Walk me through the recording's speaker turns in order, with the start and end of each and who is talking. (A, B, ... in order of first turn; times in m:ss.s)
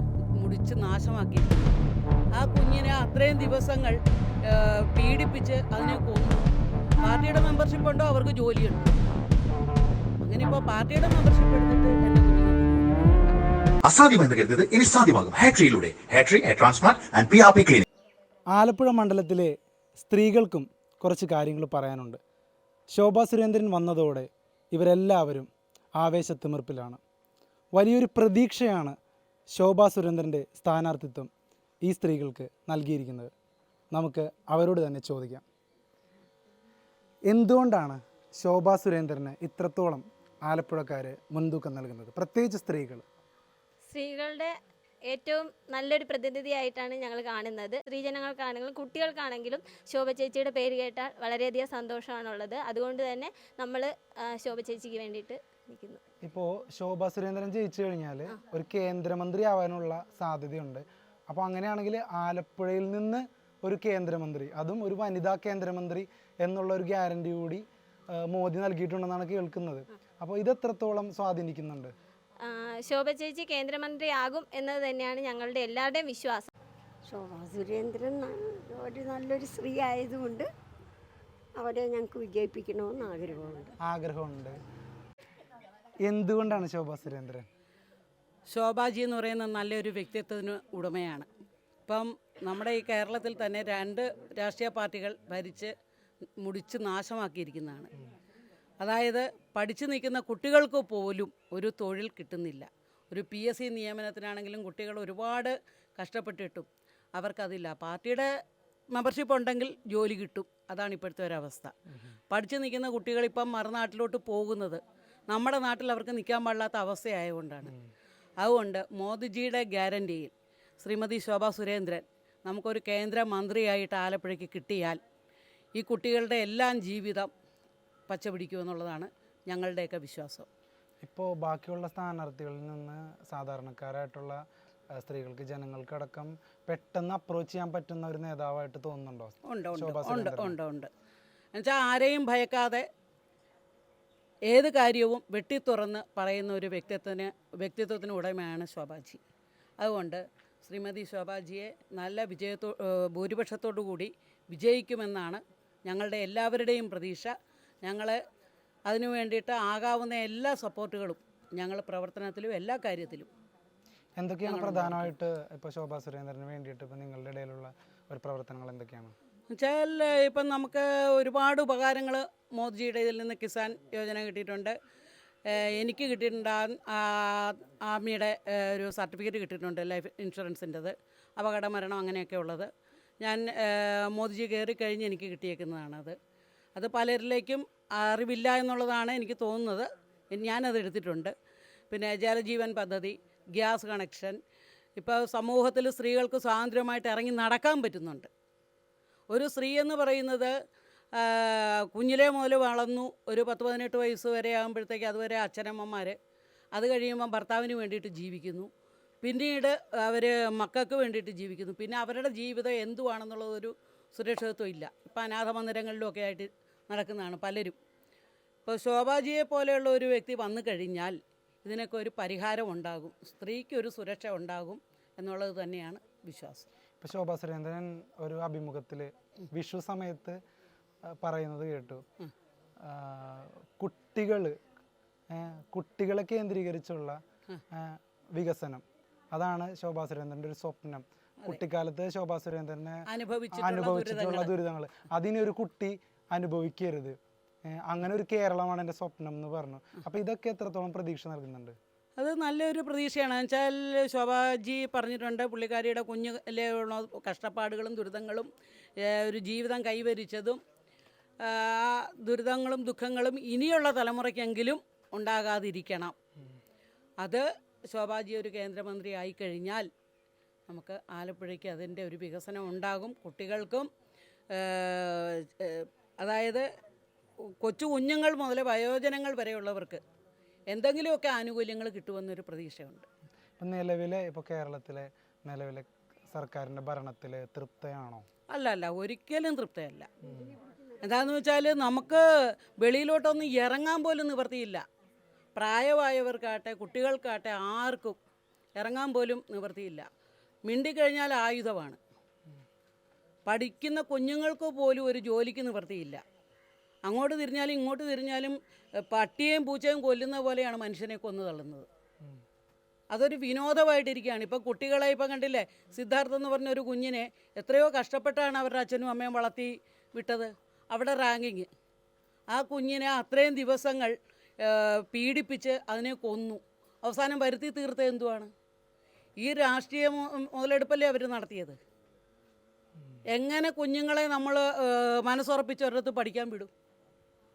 0:00.4-0:01.7 A
0:02.3-0:08.9 A
0:10.2-0:13.3 A
0:13.8-0:17.8 B
0:18.5-0:22.2 C
0:22.9-0:27.0 C
0:27.7-0:28.9 C
0:29.5-0:31.3 C
0:31.8-0:33.3 C
0:33.9-0:35.4 C
0:37.3-0:43.0 C
0:43.8-0:44.5 D
0:45.1-0:56.0 D
0:56.2-1:07.6 C
1:08.1-1:11.9 C
1:12.4-1:16.5 D
1:17.0-1:20.5 E
1:21.5-1:23.7 E
1:23.8-1:24.6 C
1:26.0-1:27.4 C
1:28.5-1:31.3 A
1:31.9-1:35.7 A
1:36.4-1:37.9 A
1:38.8-1:48.3 A
1:48.9-1:51.7 A
1:52.3-1:57.7 A
1:58.4-2:05.0 A
2:05.7-2:07.3 A
2:08.1-2:10.5 A
2:11.0-2:14.4 C
2:15.0-2:20.6 C
2:19.4-2:20.9 A
2:21.5-2:22.8 A
2:24.5-2:29.2 A
2:29.8-2:38.2 A
2:38.9-2:43.3 A
2:44.2-2:49.1 C
2:44.4-2:45.1 A
2:49.5-2:54.7 A
2:55.5-3:02.7 A
3:03.2-3:06.2 A
3:06.8-3:11.3 A
3:11.9-3:14.4 A
3:15.0-3:18.3 A
3:19.3-3:20.5 A
3:21.1-3:26.2 A
3:26.7-3:28.7 A
3:29.2-3:37.8 A
3:38.7-3:46.7 A
3:47.0-3:50.4 C
3:51.0-3:52.0 C
3:52.8-3:54.5 C
3:55.3-3:57.2 C
3:57.7-4:11.7 C
4:03.1-4:04.5 A
4:12.2-4:18.5 A
4:19.0-4:20.6 A
4:21.4-4:26.1 A
4:27.2-4:29.9 A
4:30.7-4:33.9 A
4:34.5-4:36.6 A
4:37.6-4:40.0 A
4:40.7-4:43.0 A
4:43.6-4:48.2 C
4:48.5-4:50.1 A
4:50.3-4:50.5 C
4:51.0-4:54.8 A
4:55.6-4:58.2 A
4:58.8-5:00.0 A
5:00.6-5:02.0 A
5:03.4-5:06.2 A
5:07.0-5:08.6 A
5:09.1-5:11.9 A
5:13.1-5:21.7 A
5:22.5-5:28.5 A
5:29.4-5:31.8 A
5:33.3-5:36.7 A